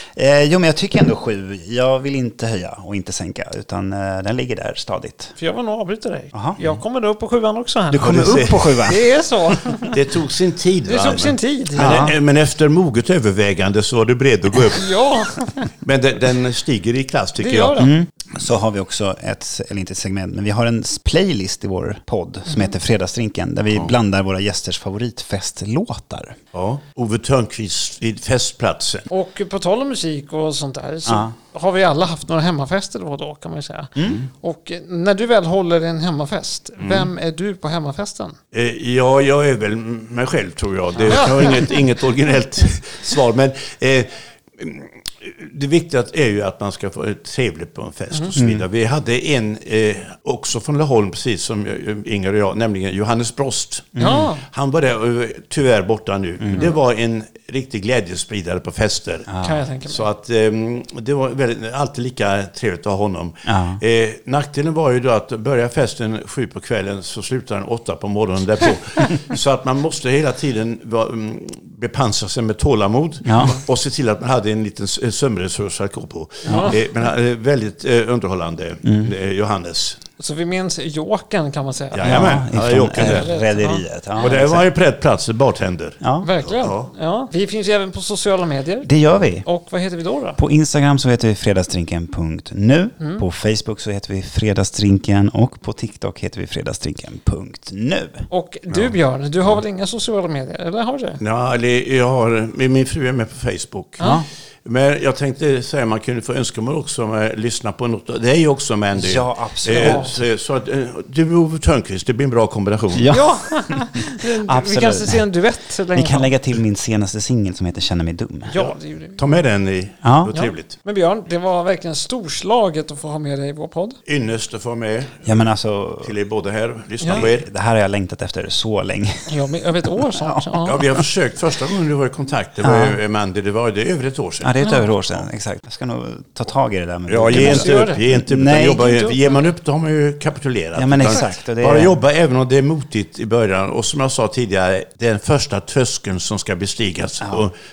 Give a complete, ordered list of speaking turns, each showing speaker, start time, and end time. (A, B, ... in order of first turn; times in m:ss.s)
0:00.2-0:05.4 A
0:05.4-0:10.0 B
0:06.3-0:06.6 A
0:07.9-0:09.0 A
0:08.0-0:08.9 C
0:09.8-0:14.9 C
0:10.9-0:12.1 B
0:11.8-0:12.2 A
0:14.8-0:15.7 B
0:15.8-0:17.9 C
0:17.4-0:17.9 B
0:17.8-0:26.4 A
0:26.5-0:29.1 C
0:29.1-0:38.4 B
0:31.1-0:31.3 A
0:34.0-0:34.2 A
0:36.8-0:37.1 C
0:38.5-0:59.3 C
0:48.4-0:48.6 A
0:54.0-0:54.3 A
0:54.0-0:54.4 B
0:59.3-0:59.6 A
0:59.4-1:00.0 B
0:59.9-1:20.0 C
1:03.5-1:03.8 A
1:13.2-1:13.6 A
1:16.5-1:16.8 B
1:16.5-1:16.7 A
1:18.8-1:19.1 A
1:20.2-1:22.4 B
1:21.9-1:23.3 C
1:22.0-1:24.6 A
1:23.0-1:24.4 B
1:24.2-1:26.9 C
1:26.0-1:26.3 A
1:26.2-1:28.9 B
1:28.8-1:29.5 A
1:29.4-1:30.4 B
1:30.4-1:38.3 A
1:38.3-1:41.2 B
1:41.2-1:44.1 C
1:44.6-1:53.2 C
1:49.0-1:50.2 A
1:49.7-1:50.1 B
1:52.9-1:55.3 A
1:53.1-1:56.3 B
1:55.9-1:58.6 A
1:58.5-1:59.2 B
1:59.2-2:00.7 C
2:00.0-2:00.3 A
2:00.3-2:04.0 B
2:04.1-2:05.4 C
2:05.3-2:06.1 A
2:06.0-2:07.5 C
2:07.1-2:09.3 A
2:09.3-2:10.9 B
2:10.2-2:10.6 A
2:10.6-2:14.6 C
2:12.6-2:13.0 A
2:14.4-2:18.8 A
2:17.1-2:27.5 C
2:17.3-2:18.0 B
2:18.7-2:19.3 B
2:20.8-2:21.9 A